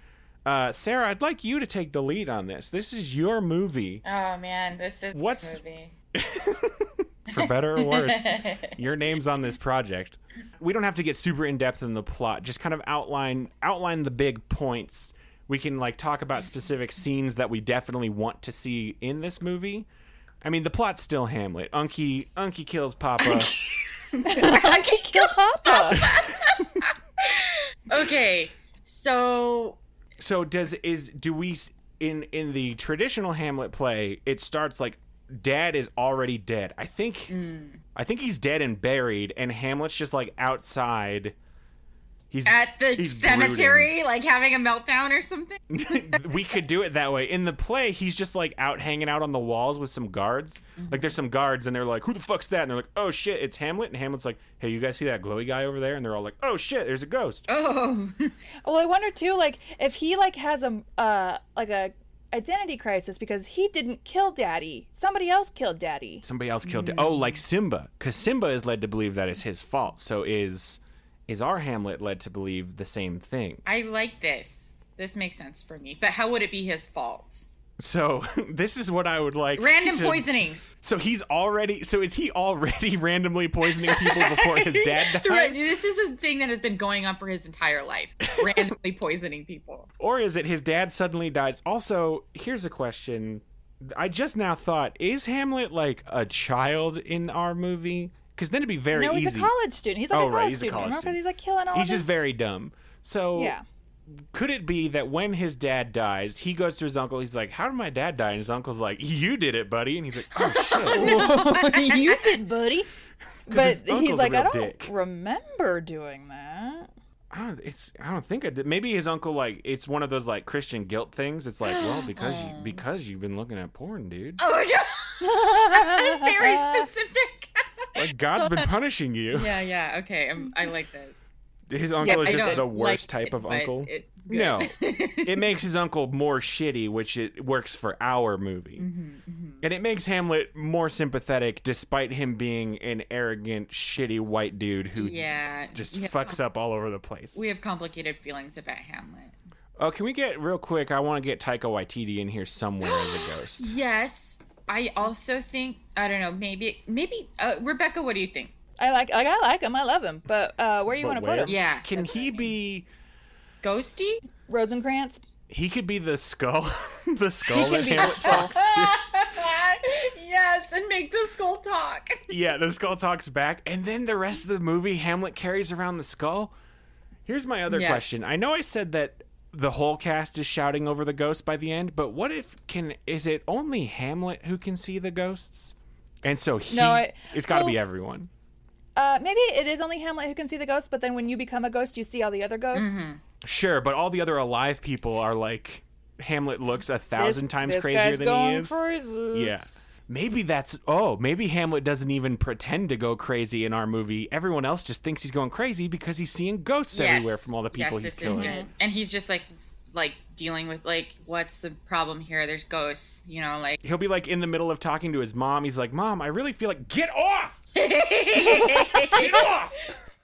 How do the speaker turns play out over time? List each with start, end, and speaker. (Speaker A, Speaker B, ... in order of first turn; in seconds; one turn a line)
Speaker A: 0.5-4.0
Speaker B: 4.0-5.9
Speaker A: 5.1-5.6
Speaker A: 6.2-19.9
Speaker B: 7.3-8.8
Speaker A: 20.4-23.6
Speaker B: 23.2-29.8
Speaker C: 24.2-26.1
Speaker A: 26.0-26.3
Speaker A: 30.2-37.4
Speaker B: 37.3-37.8
Speaker A: 38.0-41.4
Speaker A: 42.3-43.9
Speaker B: 42.5-46.4
Speaker A: 45.7-57.5
Speaker B: 50.8-51.2
Speaker B: 57.5-58.4
Speaker C: 58.6-66.2
Speaker A: 66.2-73.6
Speaker B: 66.6-67.4
Speaker B: 73.7-77.5
Speaker A: 77.8-85.6
Speaker B: 79.6-80.7
Speaker B: 83.8-89.9
Speaker A: 88.4-88.7
Speaker A: 90.0-99.5
Speaker C: 98.9-102.3
Speaker A: 100.1-101.2
Speaker A: 101.7-103.6
Speaker C: 103.3-103.6
Speaker A: 104.3-111.4
Speaker B: 110.3-112.4
Speaker C: 110.9-112.9
Speaker A: 113.5-114.9
Speaker C: 113.5-116.9
Speaker A: 117.3-124.4
Speaker B: 121.6-122.8
Speaker B: 124.4-128.7
Speaker C: 125.2-126.9
Speaker A: 128.0-129.6
Speaker B: 129.3-131.2
Speaker A: 131.7-138.9
Speaker C: 132.0-132.7
Speaker B: 132.0-135.5
Speaker B: 138.8-139.7
Speaker A: 139.6-147.5
Speaker B: 145.0-146.4
Speaker B: 147.3-149.3
Speaker A: 149.8-153.8
Speaker B: 152.8-158.5
Speaker C: 158.8-161.6
Speaker A: 160.9-162.9
Speaker B: 161.5-162.5
Speaker B: 163.6-164.2
Speaker C: 164.5-165.2
Speaker A: 165.5-169.0
Speaker C: 167.5-168.6
Speaker B: 168.0-172.3
Speaker A: 172.3-176.5
Speaker A: 177.3-188.3
Speaker B: 177.7-178.2
Speaker C: 186.7-187.8
Speaker C: 189.0-193.1
Speaker B: 192.7-193.2
Speaker A: 193.4-198.8
Speaker C: 197.2-199.5
Speaker A: 199.3-208.6
Speaker B: 206.9-213.8
Speaker C: 208.3-208.7
Speaker A: 213.8-217.6
Speaker B: 217.8-219.5
Speaker A: 218.6-219.9